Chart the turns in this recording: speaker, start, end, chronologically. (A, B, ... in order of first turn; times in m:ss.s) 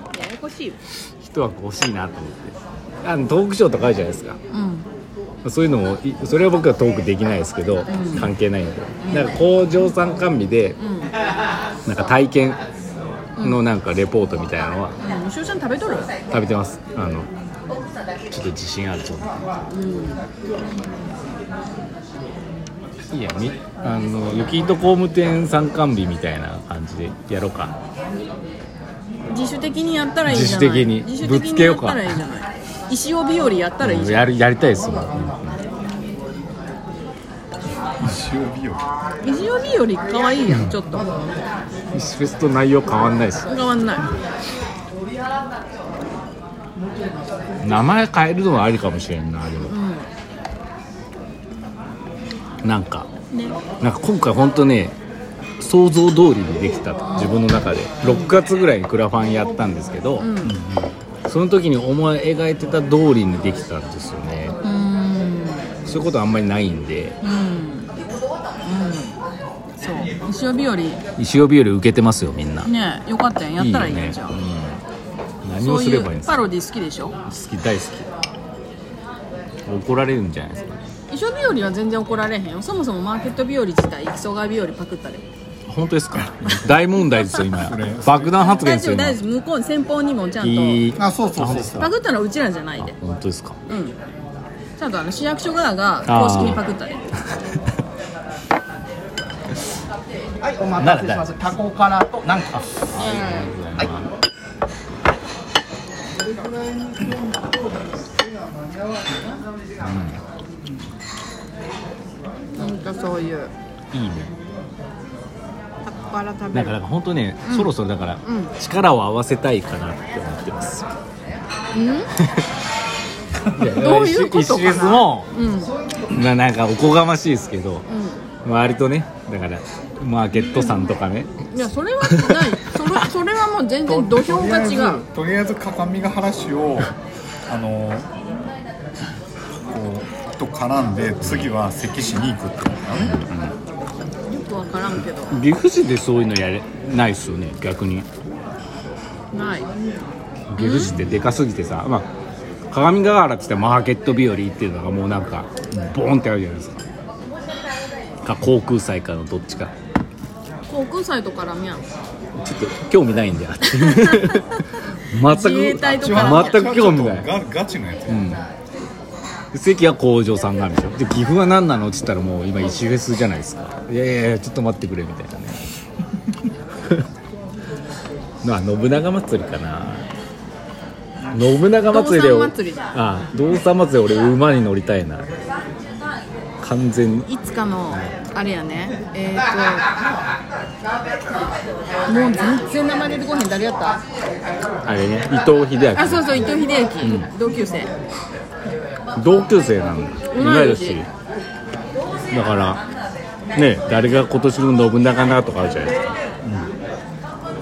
0:00.1-0:00.8 A
0:01.2-0:04.4 B
0:04.5-0:04.9 A
0:05.4-0:10.8 B
0:07.9-0:08.3 A
0:09.0-0:09.4 A
0:10.8-0:11.1 A
0:11.9-0:12.6 B
0:13.4-0:14.9 B
0:15.0-0:16.1 A
0:16.3-0:17.3 B
0:18.3-0:19.4 B
0:19.7-0:20.2 A
0:23.1-0:27.8 B
0:29.3-0:34.3 A
0:30.3-0:32.2 B
0:33.8-0:35.6 B
0:38.0-0:38.8 C
0:39.2-0:41.1 A
0:41.9-0:43.5 B
0:43.5-0:44.1 A
0:47.6-0:49.8 B
0:49.6-0:50.1 A
0:52.6-0:53.1 B
0:53.3-0:53.6 A
0:53.8-0:55.0 B
0:55.6-1:00.3 B
0:58.0-0:58.4 A
1:00.2-1:00.6 A
1:00.4-1:00.9 C
1:01.3-1:04.6 B
1:04.6-1:05.8 A
1:05.9-1:07.2 B
1:07.2-1:08.0 A
1:08.6-1:09.2 A
1:09.8-1:11.0 A
1:11.2-1:12.7 B
1:12.6-1:14.4 A
1:13.6-1:14.8 B
1:15.4-1:16.4 B
1:15.6-1:17.2 A
1:17.2-1:18.1 B
1:19.7-1:20.8 B
1:21.1-1:25.2 A
1:25.7-1:29.2 B
1:26.5-1:27.4 A
1:27.5-1:28.4 C
1:28.3-1:30.9 A
1:30.4-1:31.9 B
1:31.0-1:31.4 D
1:31.3-1:31.7 C
1:31.6-1:32.9 A
1:32.8-1:33.6 B
1:33.7-1:34.0 A
1:34.8-1:37.1 A
1:36.1-1:36.6 B
1:40.4-1:42.5 D
1:40.8-1:41.4 B
1:42.5-1:44.1 B
1:43.0-1:43.6 A
1:49.8-1:50.2 B
1:52.6-1:53.5 A
1:53.9-1:54.3 B
1:55.9-1:56.8 A
1:56.5-2:00.9 B
1:57.4-1:57.7 A
1:58.2-1:58.5 A
2:01.7-2:02.1 A
2:03.5-2:05.3 B
2:03.6-2:05.7 A
2:06.1-2:07.9 B
2:07.9-2:08.2 A
2:08.4-2:11.4 B
2:10.5-2:10.9 A
2:11.5-2:15.0 A
2:12.0-2:12.5 B
2:13.9-2:17.0 C
2:17.5-2:18.1 C
2:19.6-2:23.2 C
2:23.0-2:23.6 B
2:24.3-2:25.4 A
2:25.3-2:28.1 B
2:29.3-2:29.7 A
2:30.5-2:32.1 B
2:30.6-2:31.0 A
2:32.7-2:36.8 B
2:38.2-2:39.7 B
2:40.7-2:41.8 A
2:42.4-2:47.3 B
2:43.6-2:46.7 A
2:45.9-2:48.4 C
2:48.1-2:48.4 B
2:49.5-2:55.6 B
2:58.4-3:00.1 B
3:01.3-3:05.3 B
3:01.8-3:02.9 A
3:06.6-3:07.3 B
3:07.3-3:09.9 A
3:12.1-3:14.0 A
3:14.8-3:16.5 B
3:15.9-3:17.9 A
3:17.0-3:17.3 B
3:19.2-3:21.1 B
3:20.3-3:21.0 A
3:22.3-3:22.8 B
3:23.6-3:26.0 B
3:26.4-3:26.7 C